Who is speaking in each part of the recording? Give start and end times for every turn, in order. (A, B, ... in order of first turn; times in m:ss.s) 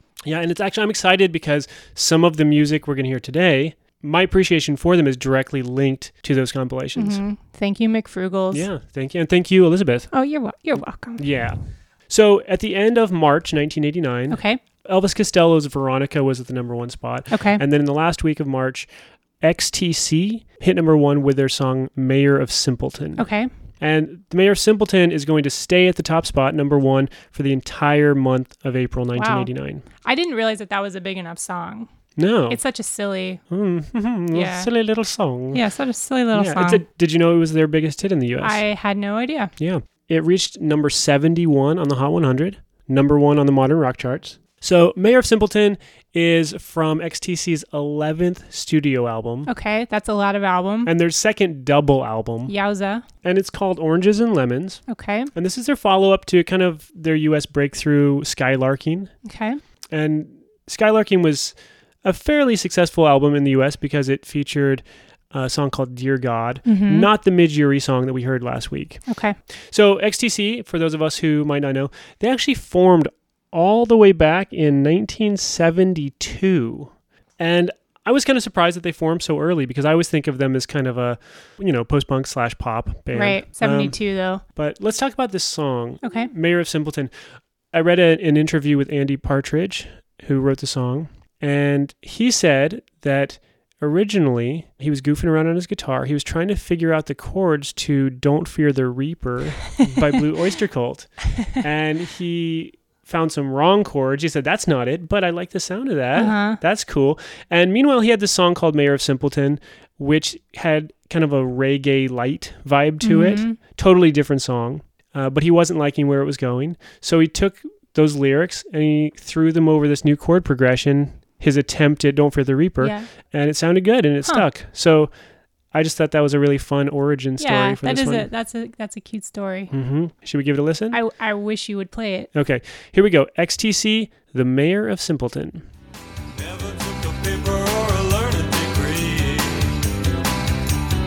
0:00.2-0:07.2 A
0:07.0-0:08.7 B
0:08.5-0:10.1 A
0:10.1-0:11.2 B
0:11.2-0:18.9 A
0:14.3-0:14.6 B
0:17.3-0:17.6 B
0:19.4-0:23.3 A
0:23.2-0:23.5 B
0:23.8-0:29.8 A
0:29.2-0:29.5 B
0:30.0-0:31.9 B
0:32.2-0:32.6 A
0:32.5-0:33.4 B
0:33.5-0:35.6 A
0:34.3-0:34.7 B
0:35.5-0:36.8 B
0:36.3-0:38.6 A
0:38.4-0:39.5 B
0:39.6-0:49.5 A
0:49.5-0:50.9 B
0:50.8-0:52.5 A
0:52.5-0:53.0 B
0:53.2-0:54.8 A
0:54.9-0:55.3 B
0:55.3-0:59.1 A
0:59.2-0:59.6 B
0:59.9-1:09.0 A
1:06.6-1:07.1 B
1:09.1-1:09.4 B
1:09.5-1:24.0 A
1:23.1-1:24.4 B
1:24.5-1:27.1 A
1:26.0-1:26.3 B
1:27.7-2:05.1 A
1:46.1-1:46.6 B
1:53.0-1:53.6 B
2:02.8-2:03.1 B
2:05.7-2:08.3 A
2:07.4-2:09.7 B
2:09.7-2:11.0 A
2:10.9-2:12.3 B
2:12.3-2:15.6 A
2:16.4-2:19.8 C